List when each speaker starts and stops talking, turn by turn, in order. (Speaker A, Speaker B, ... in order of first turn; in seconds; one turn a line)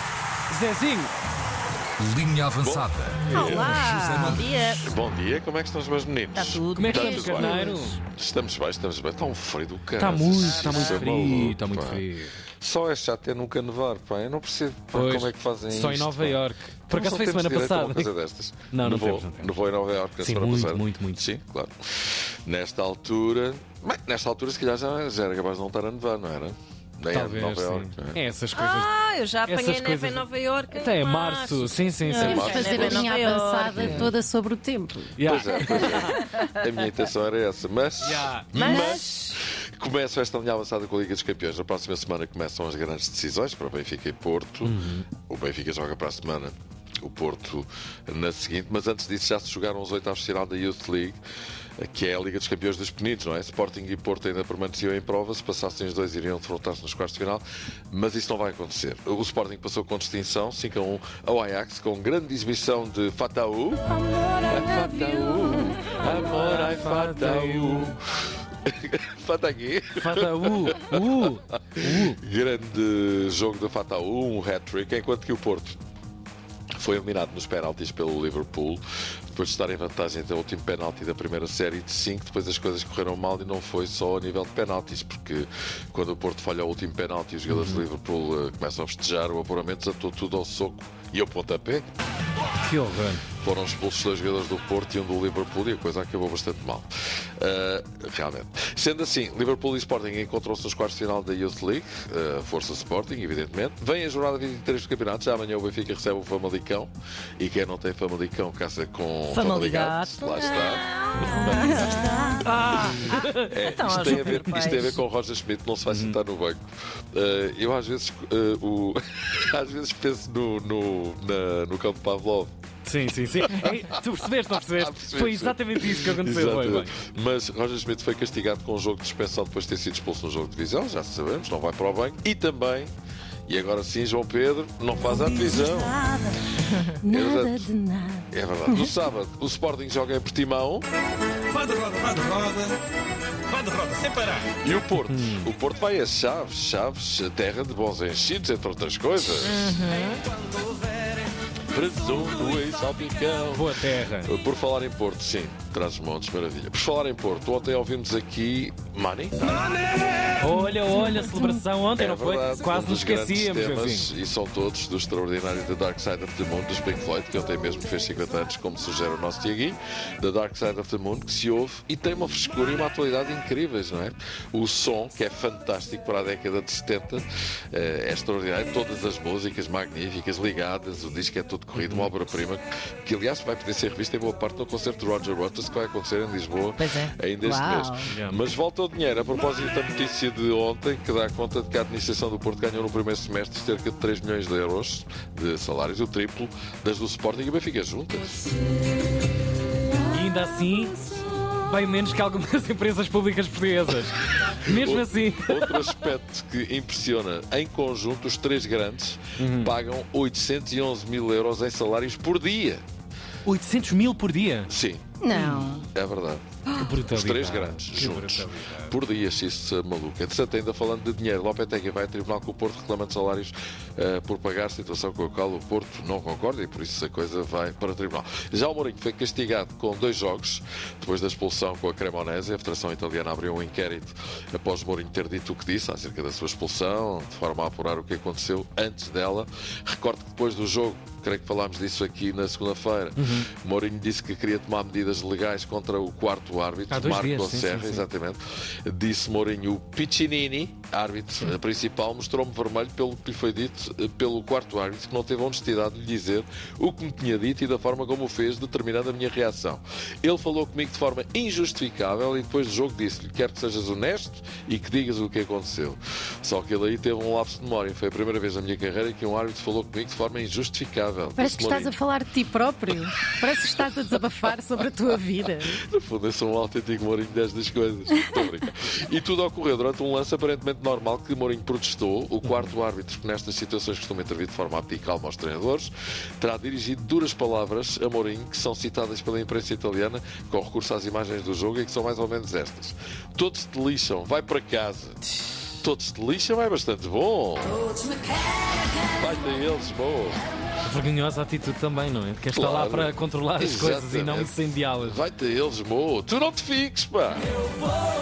Speaker A: 0.5-1.1
Speaker B: 2.0-3.1
Speaker C: 2.6-3.8
Speaker D: 3.3-4.9
Speaker B: 3.7-4.4
Speaker C: 4.8-12.0
Speaker D: 6.3-7.9
Speaker A: 6.7-8.0
Speaker A: 10.0-12.3
Speaker D: 10.3-11.1
Speaker C: 12.6-28.2
Speaker A: 14.9-18.1
Speaker A: 18.7-19.6
Speaker A: 20.2-21.3
Speaker A: 27.1-28.9
Speaker D: 28.5-34.1
Speaker A: 29.4-33.0
Speaker E: 32.2-35.2
Speaker C: 32.2-33.1
Speaker C: 33.6-34.1
Speaker A: 33.8-34.1
Speaker A: 35.1-36.2
Speaker C: 35.2-51.2
Speaker D: 35.7-36.4
Speaker A: 38.0-38.9
Speaker D: 38.5-39.4
Speaker A: 44.6-45.0
Speaker C: 51.8-68.0
Speaker A: 66.0-67.9
Speaker C: 68.7-75.8
Speaker A: 70.0-72.2
Speaker C: 76.8-91.8
Speaker A: 87.5-87.8
Speaker A: 92.6-93.2
Speaker C: 93.4-112.1
Speaker D: 109.3-115.0
Speaker A: 112.4-114.7
Speaker C: 113.5-116.6
Speaker A: 115.9-116.2
Speaker C: 117.1-122.5
Speaker A: 122.8-127.0
Speaker C: 123.4-124.0
Speaker C: 124.7-132.9
Speaker C: 133.5-136.0
Speaker E: 135.1-136.4
Speaker E: 137.0-138.9
Speaker C: 137.1-137.7
Speaker C: 138.3-140.8
Speaker B: 141.5-142.7
Speaker B: 143.5-144.3
Speaker C: 144.6-149.8
Speaker A: 145.0-145.5
Speaker D: 149.3-150.2
Speaker C: 151.7-159.7
Speaker A: 153.5-154.3
Speaker A: 160.4-164.1
Speaker E: 160.9-161.5
Speaker C: 162.0-198.5
Speaker A: 181.7-182.1
Speaker E: 187.4-188.0
Speaker A: 188.0-188.4
Speaker A: 200.0-205.9
Speaker C: 204.7-212.8
Speaker A: 209.4-209.7
Speaker A: 213.4-214.7
Speaker C: 214.7-215.2
Speaker E: 215.2-215.8
Speaker A: 215.3-215.7
Speaker C: 215.9-216.4
Speaker A: 216.7-219.0
Speaker C: 217.1-271.9
Speaker A: 243.2-243.5
Speaker A: 246.9-248.1
Speaker E: 271.4-275.8
Speaker C: 275.7-295.2
Speaker A: 282.4-282.7
Speaker C: 295.8-297.9
Speaker C: 299.1-300.4
Speaker A: 300.8-305.2
Speaker C: 302.5-307.5